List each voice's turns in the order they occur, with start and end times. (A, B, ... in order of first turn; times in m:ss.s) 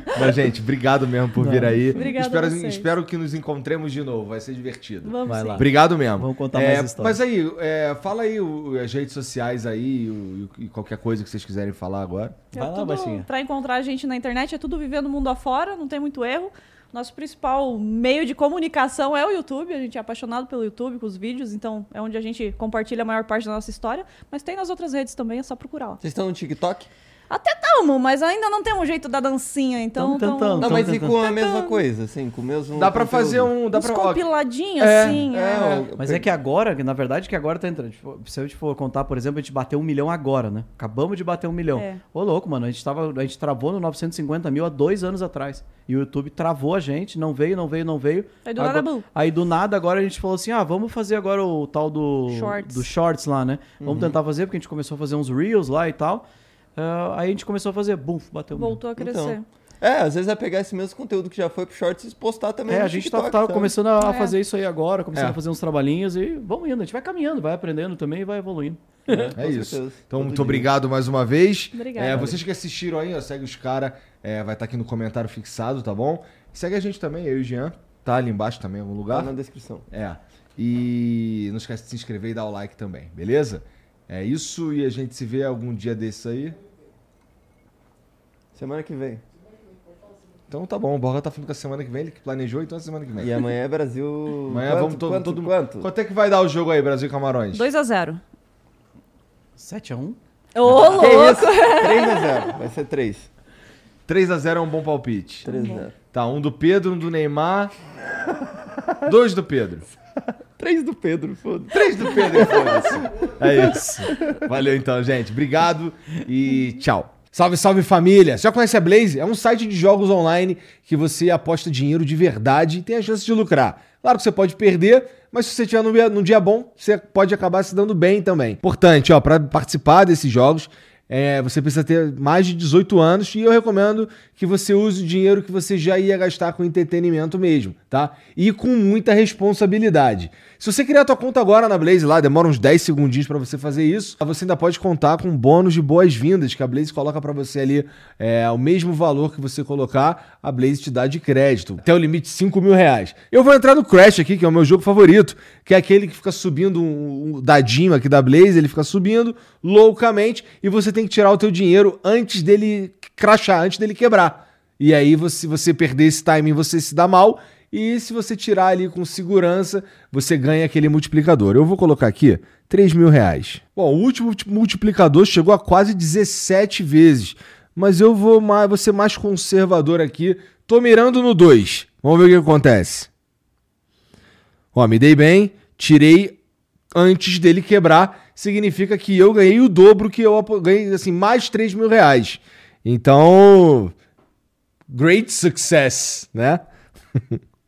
0:00.1-0:12.4 A
0:01.4-0:01.8 B
0:02.0-0:02.9 C
0:05.0-0:05.6 C
0:05.3-0:07.2 B
0:12.5-0:26.0 C
0:12.5-0:13.3 B
0:26.0-0:26.9 D
0:27.3-0:31.8 C
0:30.0-0:31.2 B
0:30.6-0:33.5 D
0:32.8-0:34.2 A
0:33.7-0:35.8 C
0:34.8-0:35.9 A
0:35.0-0:36.3 D
0:36.0-0:56.2 B
0:41.8-0:42.0 C
0:48.4-0:49.0 C
0:52.3-0:52.9 C
0:53.8-0:54.1 D
0:56.8-0:58.8 B
0:58.6-0:59.4 C
0:59.0-1:03.7 D
1:02.7-1:09.4 B
1:04.0-1:04.3 C
1:09.1-1:10.7 D
1:09.4-1:19.3 A
1:11.7-1:12.2 C
1:19.1-1:19.8 D
1:19.9-1:26.6 A
1:28.5-1:29.2 D
1:30.5-1:33.3 A
1:33.2-1:35.9 D
1:34.5-1:37.7 A
1:37.5-1:38.2 C
1:39.6-1:40.2 B
1:40.6-1:42.4 C
1:40.9-1:43.3 D
1:44.1-1:45.5 A
1:45.4-1:45.9 D
1:45.5-1:45.8 C
1:46.1-1:47.7 A
1:49.0-1:49.9 A
1:50.6-1:54.3 D
1:51.7-3:03.1 A
3:04.7-3:06.4 A
3:06.9-3:13.9 A
3:14.9-3:16.6 A
3:17.2-3:17.4 A